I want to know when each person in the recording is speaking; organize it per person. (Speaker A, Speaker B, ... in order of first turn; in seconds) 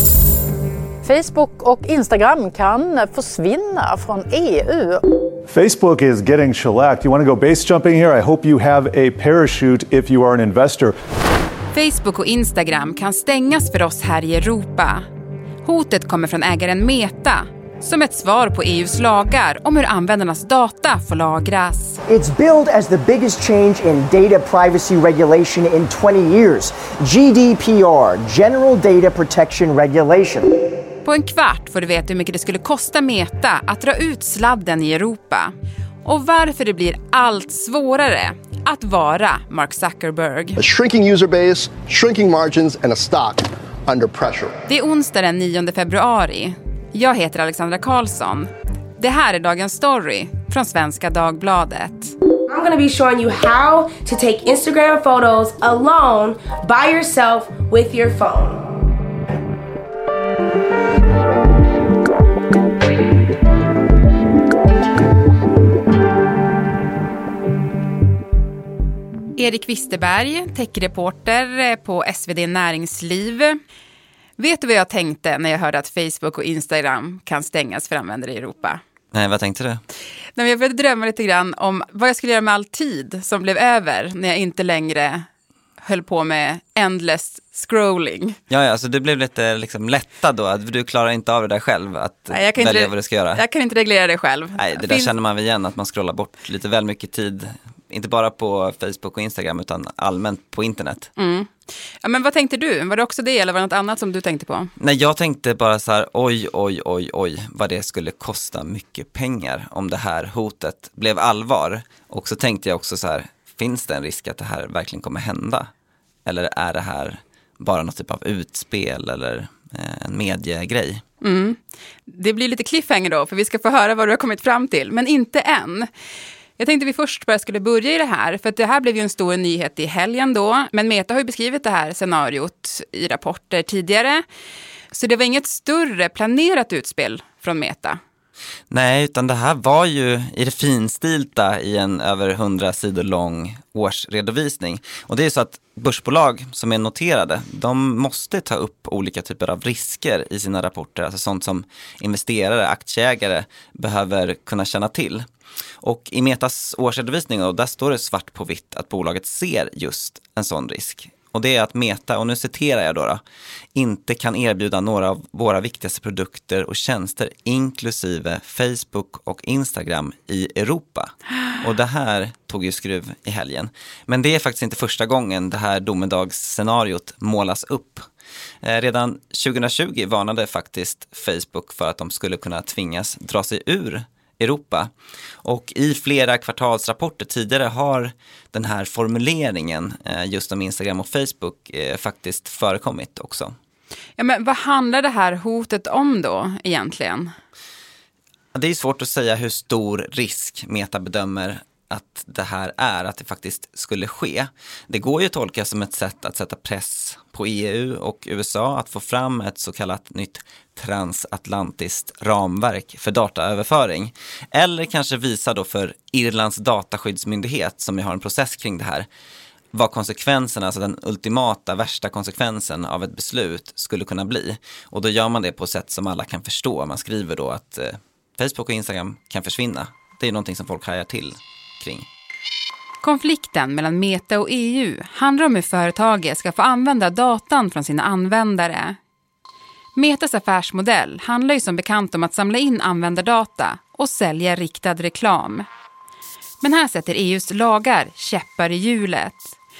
Speaker A: 1.0-5.0
Speaker B: 5.5-10.9
Speaker C: 11.7-15.1, 15.6-22.0, 31.0-35.5, 36.0-40.6, 44.7-52.1, 69.3-73.6, 74.4-78.8, 80.3-85.3, 85.8-88.4, 92.3-95.1, 101.2-101.5, 102.0-104.7, 121.2-125.9, 126.6-134.2, 134.9-138.0, 194.2-197.3, 233.0-239.0, 239.9-245.7, 246.6-249.5
Speaker D: 22.1-30.6
Speaker E: 40.6-44.5
Speaker F: 52.5-58.6
Speaker G: 79.1-79.8, 88.5-93.4, 94.6-101.1, 104.8-115.7, 116.2-121.0, 138.7-155.2, 155.8-163.2, 163.7-178.1, 178.6-184.9, 185.4-193.5, 198.5-219.1, 219.7-232.1